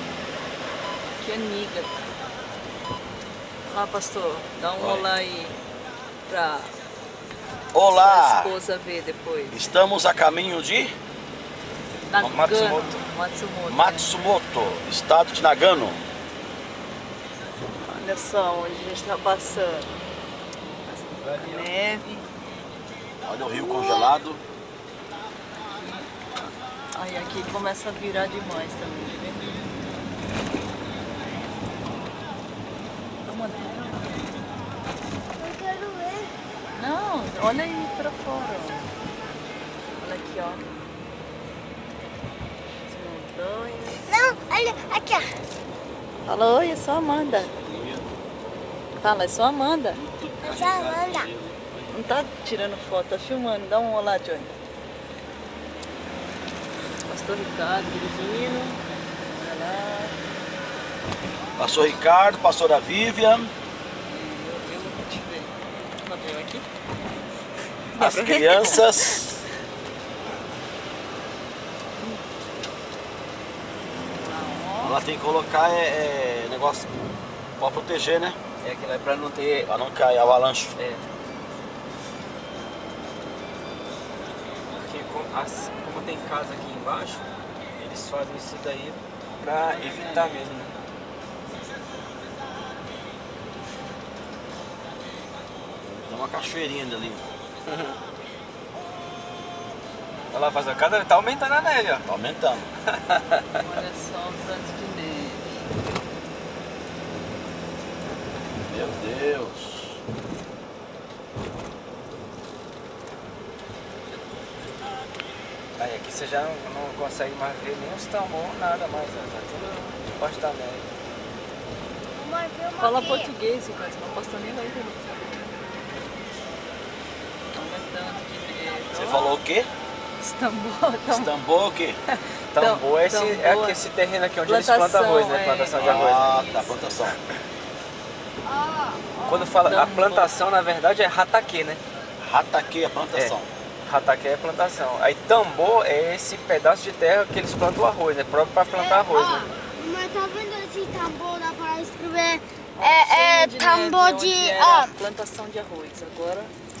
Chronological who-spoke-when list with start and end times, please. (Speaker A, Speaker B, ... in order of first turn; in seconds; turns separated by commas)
Speaker A: 1.2-2.1, Speaker A: 3.6-5.6, Speaker B: 4.8-5.0, Speaker A: 6.3-6.7, Speaker B: 7.7-8.5, Speaker A: 7.8-9.6, Speaker B: 9.5-10.9, Speaker A: 12.1-14.1, Speaker C: 12.2-13.0, Speaker B: 13.7-16.0, Speaker A: 17.8-19.9, Speaker A: 20.9-22.2, Speaker C: 21.2-21.7, Speaker B: 23.2-24.4, Speaker D: 23.5-24.1, Speaker A: 25.7-26.2, Speaker A: 26.9-29.5, Speaker A: 33.2-34.3, Speaker D: 35.4-36.3, Speaker A: 36.7-38.9, Speaker A: 40.0-40.6, Speaker A: 42.9-44.1, Speaker D: 44.0-45.3, Speaker A: 46.2-47.5, Speaker B: 47.5-48.0, Speaker A: 49.0-50.0, Speaker B: 50.2-50.6, Speaker D: 50.4-51.3, Speaker C: 50.5-51.1, Speaker A: 51.9-54.5, Speaker A: 57.0-60.2, Speaker B: 61.6-63.5, Speaker A: 64.0-66.7, Speaker A: 67.9-69.3, Speaker B: 68.0-69.4, Speaker A: 74.1-75.0, Speaker B: 74.8-76.9, Speaker B: 77.6-78.4, Speaker C: 78.6-79.7, Speaker B: 79.7-80.8, Speaker C: 80.8-81.0, Speaker C: 84.7-87.2, Speaker C: 87.8-90.8, Speaker A: 89.6-90.4, Speaker B: 95.8-97.3, Speaker C: 97.7-98.0, Speaker C: 100.3-102.0, Speaker B: 102.1-102.7, Speaker C: 102.9-103.4, Speaker A: 103.5-105.8, Speaker B: 108.7-110.0, Speaker C: 115.8-120.9, Speaker D: 122.1-123.3, Speaker A: 122.8-125.5, Speaker A: 127.5-129.4, Speaker B: 128.9-129.7, Speaker A: 130.2-131.3, Speaker B: 131.1-132.0, Speaker A: 132.1-133.8, Speaker C: 132.5-136.4, Speaker A: 134.4-136.8, Speaker B: 135.8-137.2, Speaker D: 138.4-139.5, Speaker C: 139.2-141.8, Speaker A: 139.6-140.3, Speaker B: 142.2-143.5, Speaker C: 143.1-149.5, Speaker D: 148.7-154.9, Speaker A: 152.8-156.5